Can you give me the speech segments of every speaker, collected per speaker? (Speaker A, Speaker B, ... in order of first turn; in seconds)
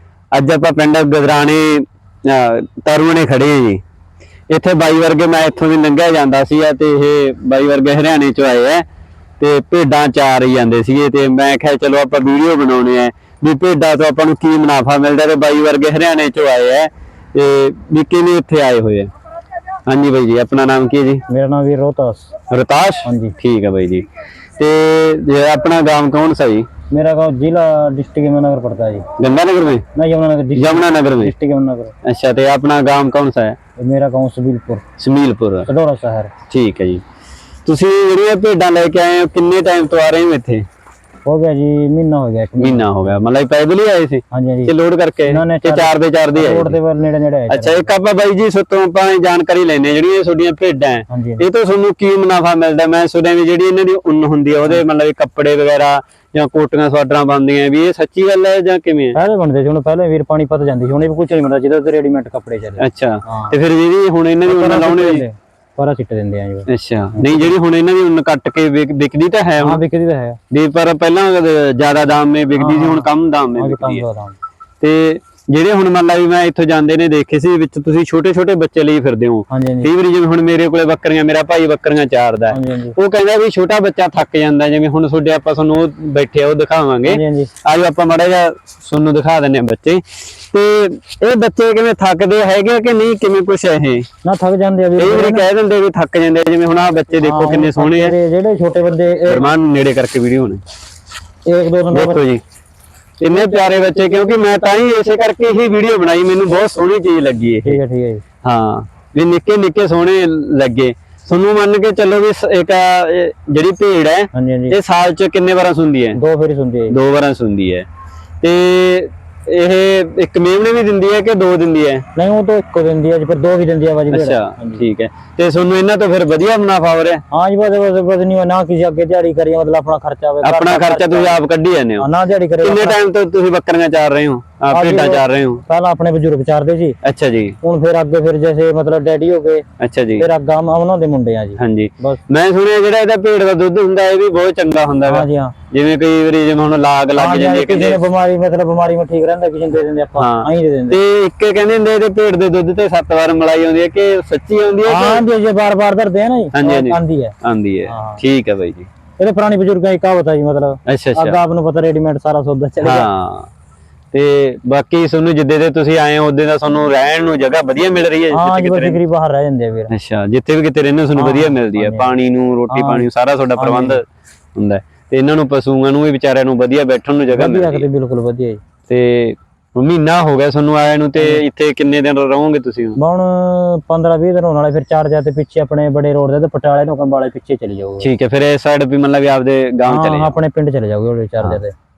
Speaker A: 0.3-3.8, 4.5-8.8, 9.4-19.1, 19.9-21.2, 22.5-24.1, 24.6-26.7, 29.2-29.8, 30.5-31.3, 32.0-33.6, 35.0-35.7, 36.5-37.0, 37.6-40.6, 42.6-46.8, 47.5-59.2, 62.8-65.2, 66.7-69.8, 70.5-74.0, 74.8-94.1, 95.0-98.1, 99.3-100.6, 101.9-102.4, 103.2-107.8, 108.4-116.2, 116.9-117.9, 118.4-122.0, 124.1-127.2, 130.4-132.1, 132.6-135.6, 137.0-137.6, 139.8-140.2, 141.6-148.0, 150.2-155.2, 156.5-158.9, 160.9-161.4, 162.8-163.5, 164.1-169.0, 169.9-174.0, 174.6-177.8, 178.9-183.0, 188.0-190.3
Speaker B: 21.3-22.3, 23.0-23.3, 26.9-29.0, 29.9-31.9, 33.8-34.8, 35.7-36.3, 41.2-43.2, 44.3-44.7, 45.2-47.9, 51.1-51.4, 59.1-63.5, 64.5-67.5, 69.6-70.4, 72.5-74.3, 79.5-79.9, 82.5-83.0, 87.0-87.5, 94.2-95.5, 97.2-99.5, 101.5-102.2, 103.3-105.6, 107.6-108.2, 114.3-114.8, 116.2-117.0, 122.2-124.8, 127.3-131.4, 132.0-133.0, 134.7-137.0, 137.6-139.6, 140.2-142.2, 145.1-145.5, 147.1-151.0, 154.8-157.3, 157.8-158.2, 159.2-163.1, 168.3-169.9, 171.2-172.1, 172.7-174.0, 177.3-178.6, 183.0-188.1, 189.8-191.7